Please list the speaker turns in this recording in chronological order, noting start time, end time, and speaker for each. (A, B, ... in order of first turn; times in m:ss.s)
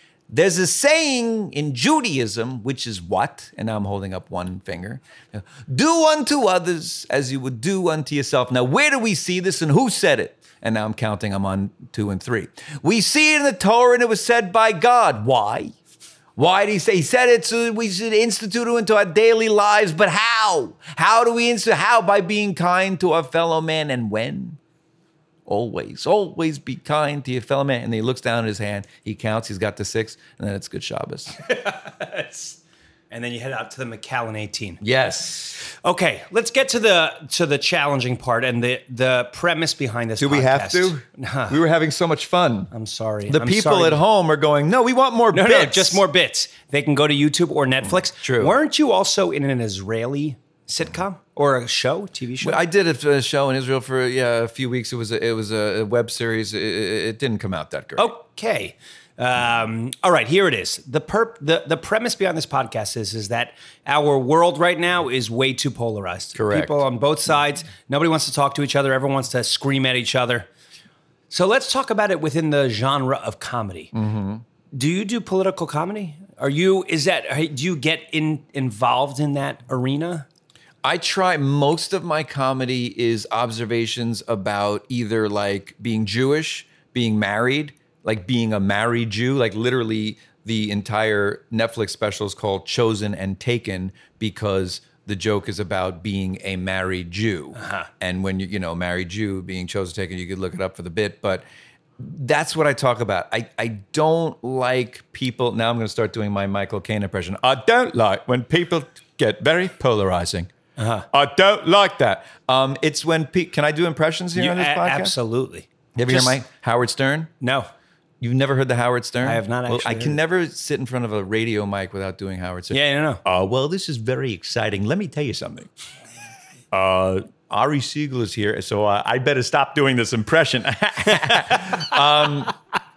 0:00.3-0:15.7 A
0:16.4-0:24.6 A
0:25.5-0:31.4 A
0:31.4-0:32.6 B
0:33.1-0:34.8 B
0:34.8-0:35.6 A
0:35.6-0:41.6 B
0:40.2-0:42.7 A
0:42.7-0:44.0 B
0:43.3-0:46.1 A
0:45.3-0:52.6 B
0:48.2-0:48.6 A
0:52.4-0:58.1 A
0:58.0-1:10.5 B
1:06.4-1:06.8 A
1:11.3-1:13.9 B
1:13.9-1:14.4 A
1:14.7-1:20.3 B
1:20.8-1:41.4 A
1:37.6-1:37.9 B
1:42.0-1:50.5 A
1:50.8-1:51.1 B
1:51.1-1:55.1 A
1:54.4-1:56.4 B
1:56.0-1:57.3 A
1:57.4-1:57.7 B
1:58.2-2:05.7 A
1:59.2-2:00.2 B
2:02.7-2:03.2 B
2:06.7-2:12.5 A
2:11.2-2:12.0 B